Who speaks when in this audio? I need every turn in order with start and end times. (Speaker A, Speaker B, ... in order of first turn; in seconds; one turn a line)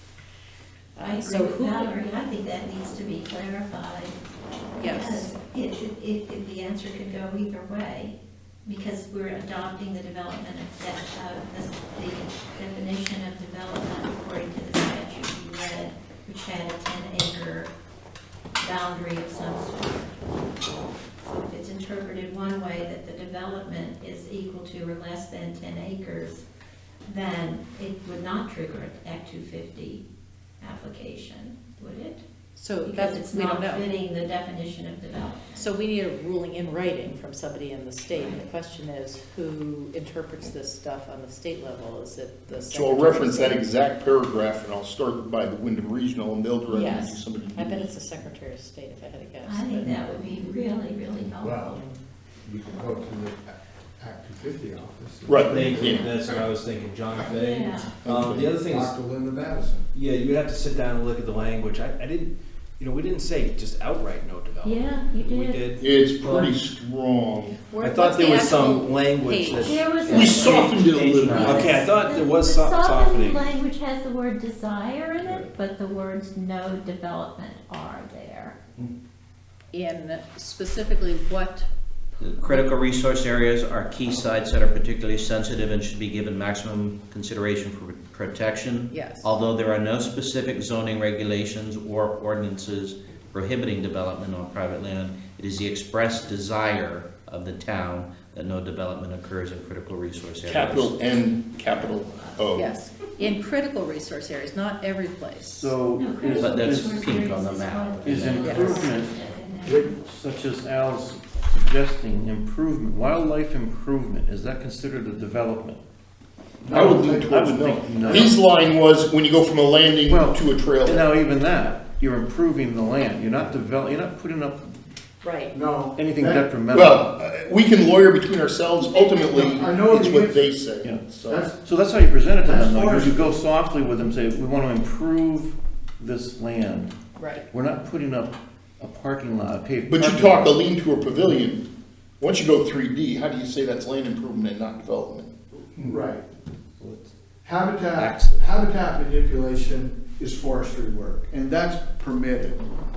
Speaker A: 0.9-2.0
Speaker B: 1.0-4.2
Speaker B: 4.8-17.7
Speaker A: 4.8-5.3
Speaker B: 18.6-20.2
Speaker B: 21.2-26.4
Speaker B: 27.1-30.0
Speaker B: 30.6-32.2
Speaker A: 32.5-33.9
Speaker B: 32.8-35.7
Speaker A: 35.5-43.6
Speaker B: 38.1-38.4
Speaker C: 42.6-47.9
Speaker A: 46.7-50.3
Speaker B: 49.5-51.8
Speaker D: 51.3-51.8
Speaker D: 52.4-56.1
Speaker C: 55.2-56.1
Speaker E: 55.4-58.9
Speaker B: 55.7-56.2
Speaker B: 57.3-57.9
Speaker C: 58.0-58.5
Speaker D: 58.1-59.9
Speaker E: 59.9-66.5
Speaker B: 64.6-65.6
Speaker C: 65.8-67.6
Speaker A: 67.7-70.6
Speaker E: 67.8-73.5
Speaker B: 69.5-70.8
Speaker C: 70.1-71.8
Speaker F: 70.1-71.6
Speaker B: 71.4-78.6
Speaker E: 75.2-75.5
Speaker A: 79.7-81.7
Speaker F: 82.2-101.0
Speaker A: 82.4-82.7
Speaker A: 88.9-89.3
Speaker C: 100.5-102.8
Speaker A: 102.5-105.7
Speaker G: 105.5-107.3
Speaker B: 105.9-110.0
Speaker F: 106.4-108.5
Speaker G: 108.0-115.8
Speaker A: 108.4-108.8
Speaker D: 116.6-117.4
Speaker G: 116.7-118.4
Speaker C: 116.7-121.0
Speaker D: 118.0-118.3
Speaker G: 120.1-124.7
Speaker A: 125.2-125.5
Speaker D: 125.5-126.5
Speaker G: 126.0-127.1
Speaker C: 126.7-131.5
Speaker D: 129.3-131.6
Speaker G: 130.8-136.9
Speaker D: 132.4-133.3
Speaker A: 137.2-137.4
Speaker G: 137.5-140.6
Speaker C: 139.8-141.7
Speaker C: 142.2-145.3
Speaker D: 145.8-146.2
Speaker D: 147.4-152.6
Speaker F: 147.9-148.5